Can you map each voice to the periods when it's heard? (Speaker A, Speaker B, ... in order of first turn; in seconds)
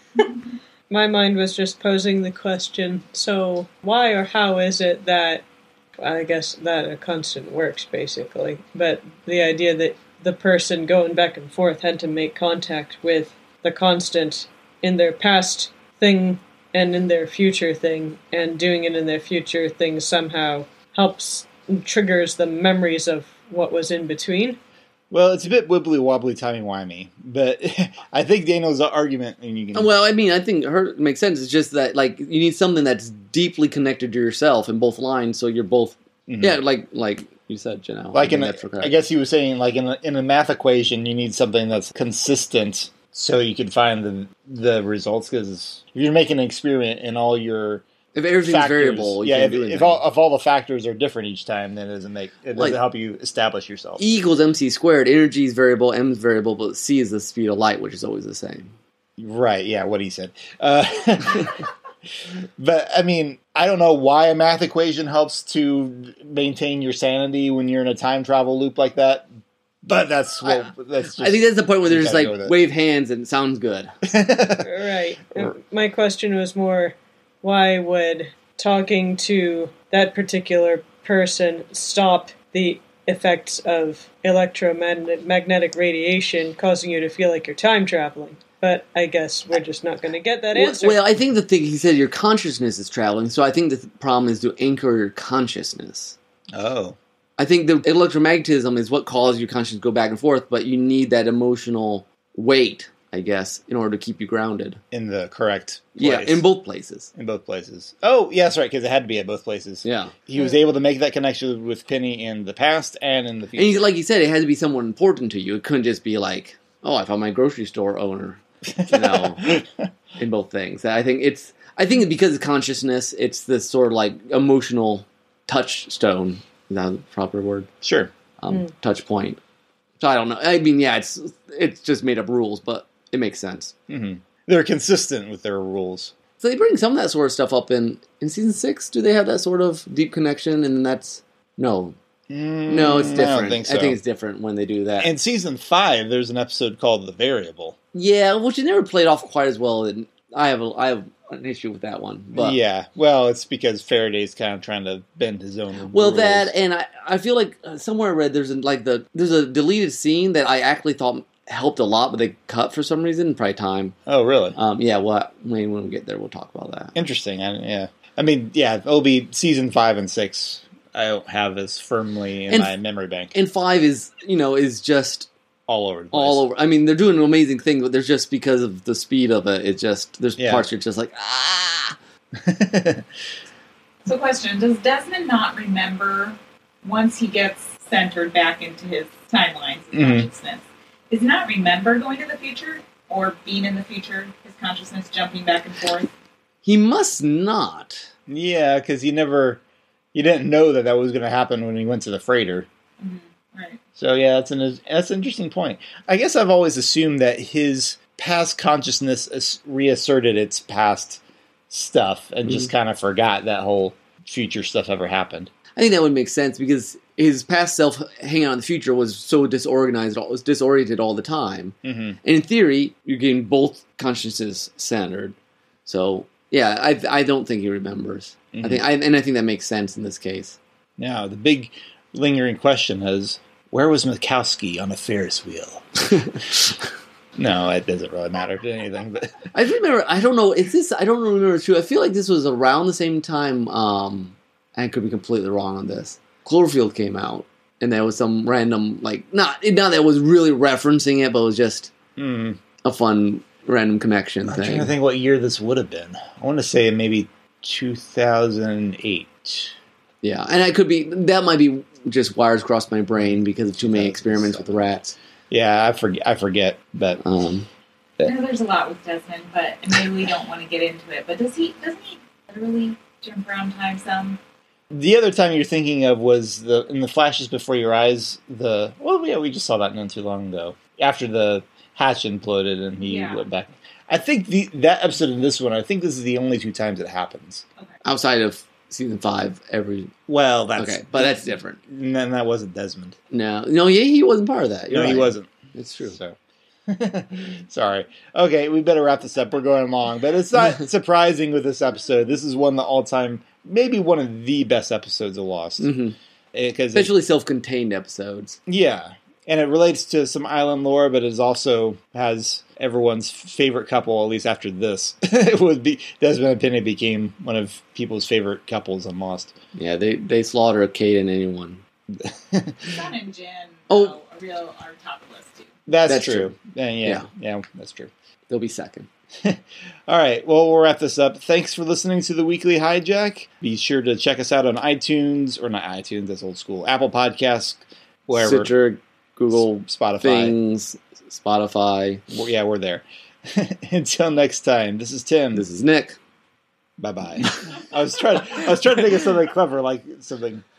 Speaker A: 0.9-5.4, 6.0-24.6, 74.6-91.0
Speaker B: 25.1-29.9, 36.3-36.6, 38.1-47.8, 48.4-54.0, 59.2-61.6, 62.2-69.3, 69.8-72.6, 74.0-74.7, 96.5-97.0, 104.9-106.4, 107.1-113.9, 118.7-119.9, 127.8-128.1, 133.9-136.1, 142.3-144.0, 145.0-147.8, 152.3-156.5, 164.1-164.6, 166.9-173.3, 175.7-176.4, 180.4-180.7, 182.3-183.1, 189.9-190.3, 198.3-199.6, 200.1-202.7, 203.9-215.5, 221.8-222.2, 228.5-228.8, 231.0-236.2, 237.4-239.5, 252.2-252.6, 254.4-259.7, 263.8-264.9, 265.5-267.2, 274.9-287.6, 290.3-293.2, 294.9-295.5, 296.1-305.9, 306.5-307.1, 308.7-319.5, 322.1-322.9, 325.9-328.1, 329.4-338.7, 339.5-340.6, 342.3-345.7, 347.0-350.6
Speaker C: 29.7-38.9, 48.1-50.0, 54.0-58.7, 70.4-73.9, 90.5-96.2, 97.4-104.8, 106.0-107.1, 109.8-110.1, 113.6-119.6, 120.2-127.7, 128.4-129.4, 130.0-133.7, 136.4-141.9, 142.7-145.1, 147.9-152.6, 155.8-163.9, 164.6-166.9, 172.5-172.7, 173.3-175.3, 176.1-181.9, 196.6-198.1, 215.8-230.6, 236.1-236.6, 239.5-251.9, 252.8-254.9, 260.2-265.1, 267.2-267.7, 288.0-290.1, 290.8-291.8, 293.3-296.2, 305.8-306.1, 306.9-308.6, 319.7-321.8, 326.1-326.5, 328.5-329.1, 338.4-342.2, 345.6-346.2
Speaker D: 184.1-196.1, 203.0-203.8, 268.2-274.4, 283.1-283.4, 322.8-325.7